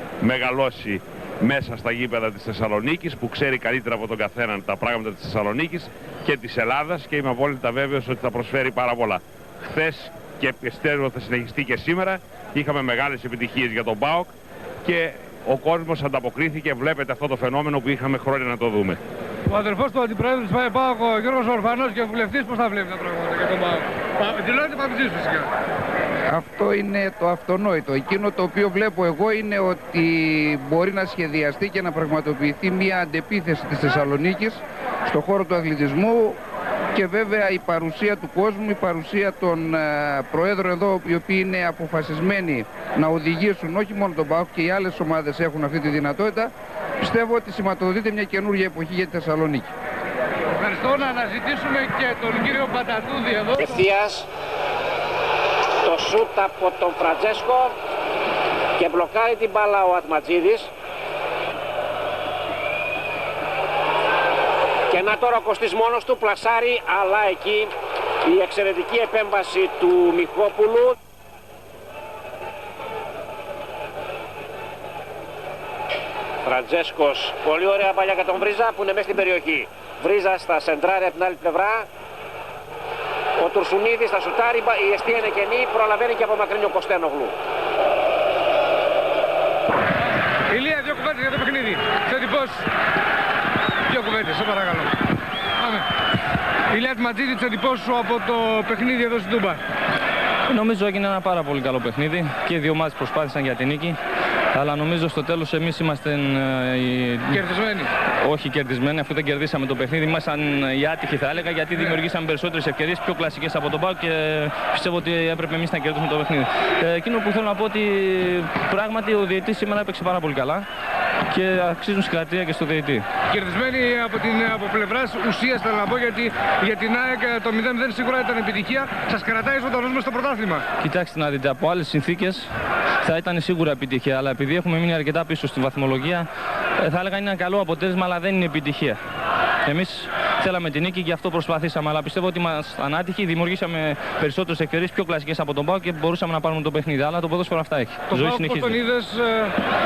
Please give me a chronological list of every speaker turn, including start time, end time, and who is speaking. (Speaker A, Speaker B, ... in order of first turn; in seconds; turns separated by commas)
Speaker A: 0.2-19.0, Speaker B: 19.5-25.5, Speaker C: 26.3-36.4, Speaker C: 36.9-49.7, Speaker B: 50.6-53.8, Speaker D: 53.6-54.3, Speaker D: 55.9-57.7, Speaker D: 58.8-60.7, Speaker D: 64.9-67.7, Speaker D: 68.2-71.0, Speaker D: 76.5-81.9, Speaker D: 83.4-87.3, Speaker B: 90.5-92.7, Speaker B: 93.9-94.9, Speaker B: 96.7-99.6, Speaker E: 100.5-104.0, Speaker E: 104.5-107.4, Speaker B: 107.3-107.9, Speaker E: 108.2-120.7, Speaker E: 121.3-123.1, Speaker B: 123.3-130.7, Speaker E: 130.8-132.5, Speaker E: 133.0-136.3, Speaker E: 136.8-139.0, Speaker E: 139.7-148.8, Speaker B: 148.1-149.6